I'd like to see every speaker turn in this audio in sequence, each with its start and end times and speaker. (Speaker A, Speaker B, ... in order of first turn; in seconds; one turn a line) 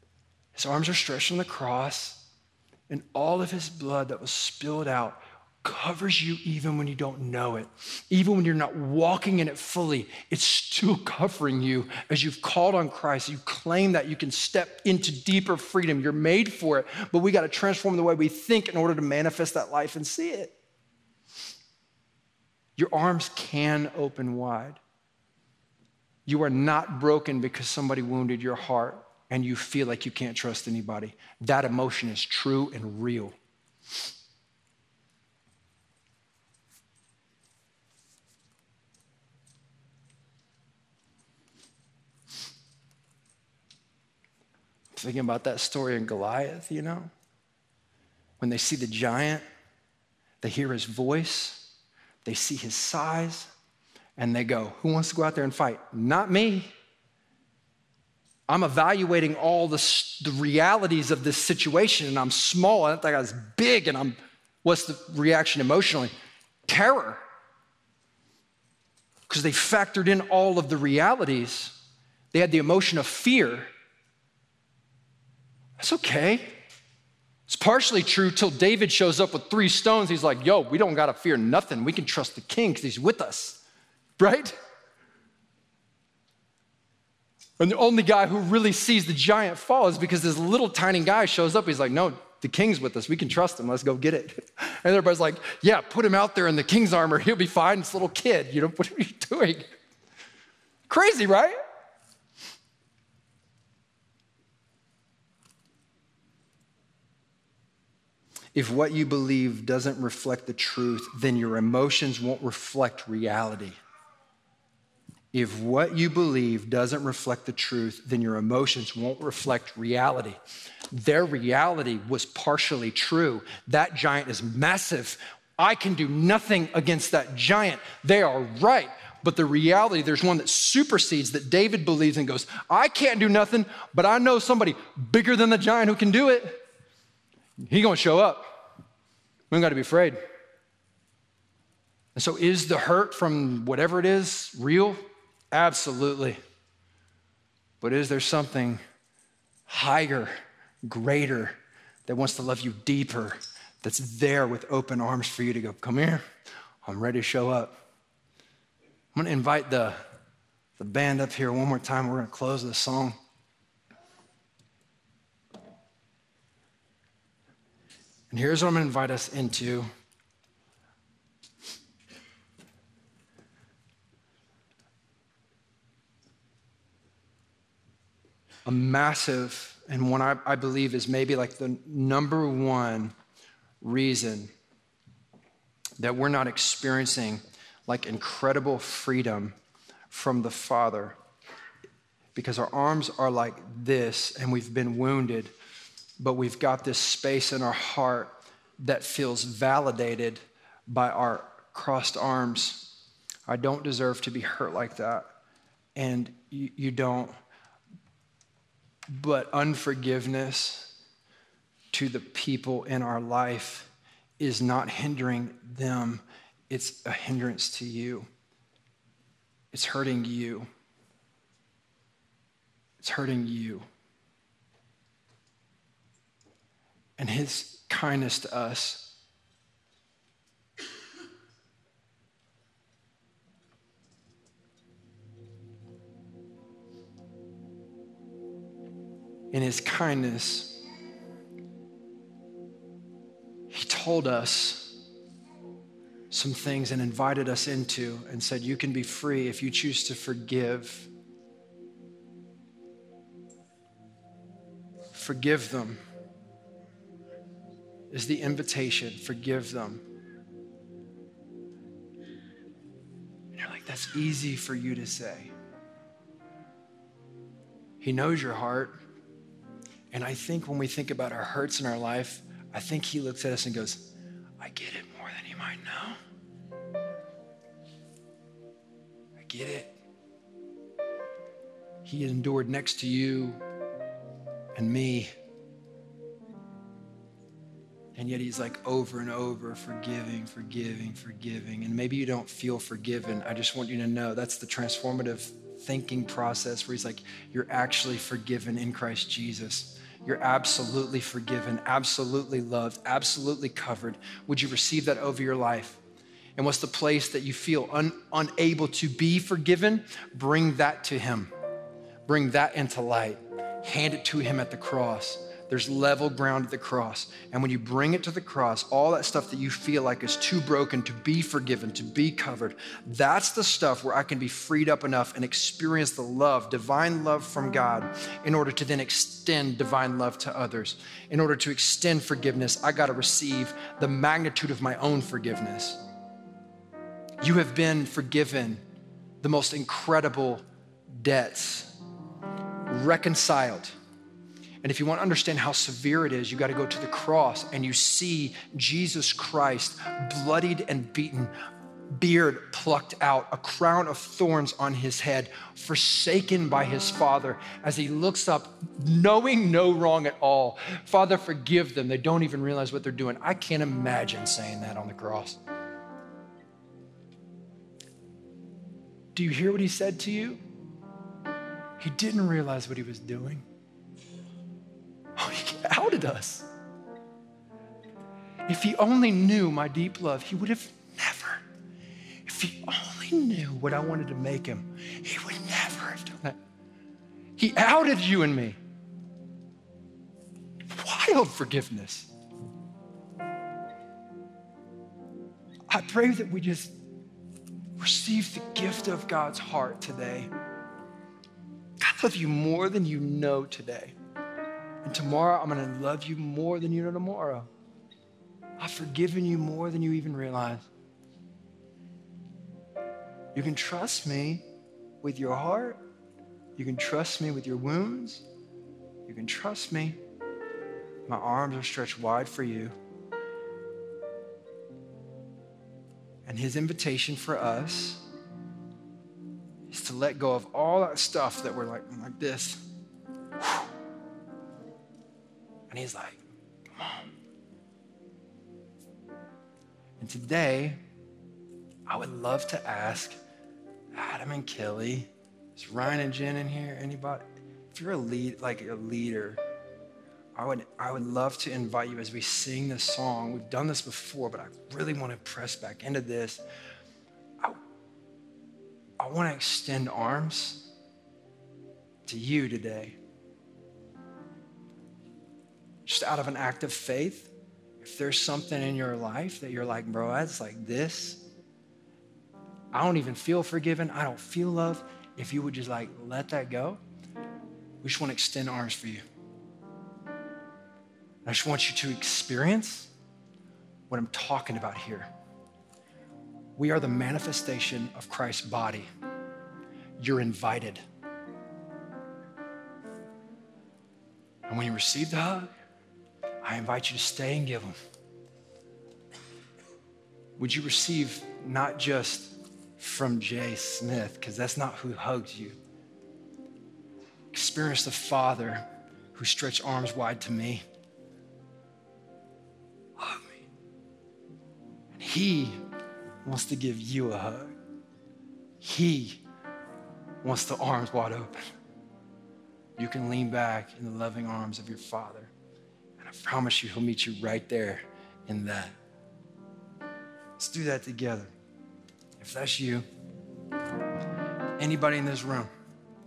Speaker A: 0.6-2.3
Speaker A: 2.9-20.6
Speaker A: 22.8-24.8
Speaker A: 26.3-33.4
Speaker A: 44.9-47.1
Speaker A: 48.4-49.4
Speaker A: 50.4-51.7
Speaker A: 52.2-53.5
Speaker A: 54.2-56.7
Speaker A: 58.5-66.1
Speaker A: 66.7-67.2
Speaker A: 69.3-71.8
Speaker A: 72.3-73.7
Speaker A: 75.8-76.5
Speaker A: 77.5-83.6
Speaker A: 84.2-84.5
Speaker A: 87.6-99.7
Speaker A: 100.9-101.6
Speaker A: 108.5-113.8
Speaker A: 115.3-120.4
Speaker A: 120.9-136.6
Speaker A: 137.6-138.7
Speaker A: 139.5-140.2
Speaker A: 142.1-145.0
Speaker A: 145.5-146.4
Speaker A: 147.8-148.8
Speaker A: 149.7-150.3
Speaker A: 150.8-156.2
Speaker A: 156.8-157.8
Speaker A: 159.1-160.0
Speaker A: 160.8-163.2
Speaker A: 168.3-169.9
Speaker A: 178.7-183.1
Speaker A: 183.8-184.5
Speaker A: 186.0-189.6
Speaker A: 190.1-191.2
Speaker A: 192.3-195.5
Speaker A: 196.2-202.9
Speaker A: 203.5-205.3
Speaker A: 205.9-207.3
Speaker A: 209.1-210.9
Speaker A: 211.9-218.3
Speaker A: 219.7-220.7
Speaker A: 223.0-223.9
Speaker A: 227.2-229.2
Speaker A: 239.5-240.8
Speaker A: 243.7-245.0
Speaker A: 246.3-251.1
Speaker A: 255.1-256.0
Speaker A: 258.1-260.0
Speaker A: 263.5-265.5
Speaker A: 268.0-269.0
Speaker A: 270.1-276.2
Speaker A: 279.4-279.9
Speaker A: 282.1-283.6
Speaker A: 284.7-285.3
Speaker A: 288.1-306.0
Speaker A: 306.6-311.5
Speaker A: 312.3-336.0
Speaker A: 337.4-338.8
Speaker A: 339.4-342.0
Speaker A: 342.9-343.9
Speaker A: 344.8-351.5
Speaker A: 352.2-365.6
Speaker A: 369.3-370.6
Speaker A: 372.0-373.6
Speaker A: 375.4-376.7
Speaker A: 378.6-381.6
Speaker A: 382.4-386.6
Speaker A: 387.6-388.8
Speaker A: 390.9-392.3
Speaker A: 395.9-396.9
Speaker A: 398.0-400.5
Speaker A: 402.0-404.1
Speaker A: 405.0-407.7
Speaker A: 408.8-410.9
Speaker A: 413.5-414.6
Speaker A: 415.2-416.0
Speaker A: 416.8-418.4
Speaker A: 419.3-420.2
Speaker A: 421.3-422.9
Speaker A: 426.4-428.2
Speaker A: 429.9-432.8
Speaker A: 435.9-436.4
Speaker A: 436.9-437.3
Speaker A: 440.2-441.0
Speaker A: 442.1-443.4
Speaker A: 444.1-449.6
Speaker A: 450.6-456.6
Speaker A: 459.2-460.9
Speaker A: 462.2-463.2
Speaker A: 466.1-471.5
Speaker A: 472.9-477.0
Speaker A: 478.0-479.2
Speaker A: 481.4-483.1
Speaker A: 484.1-485.3
Speaker A: 486.8-489.1
Speaker A: 490.2-491.0
Speaker A: 494.7-495.7
Speaker A: 496.6-497.9
Speaker A: 500.6-505.8
Speaker A: 507.5-510.8
Speaker A: 513.2-513.6
Speaker A: 515.1-515.8
Speaker A: 516.4-517.7
Speaker A: 518.8-519.4
Speaker A: 520.4-521.6
Speaker A: 523.0-525.5
Speaker A: 526.2-529.0
Speaker A: 530.6-531.5
Speaker A: 532.4-533.0
Speaker A: 534.8-535.7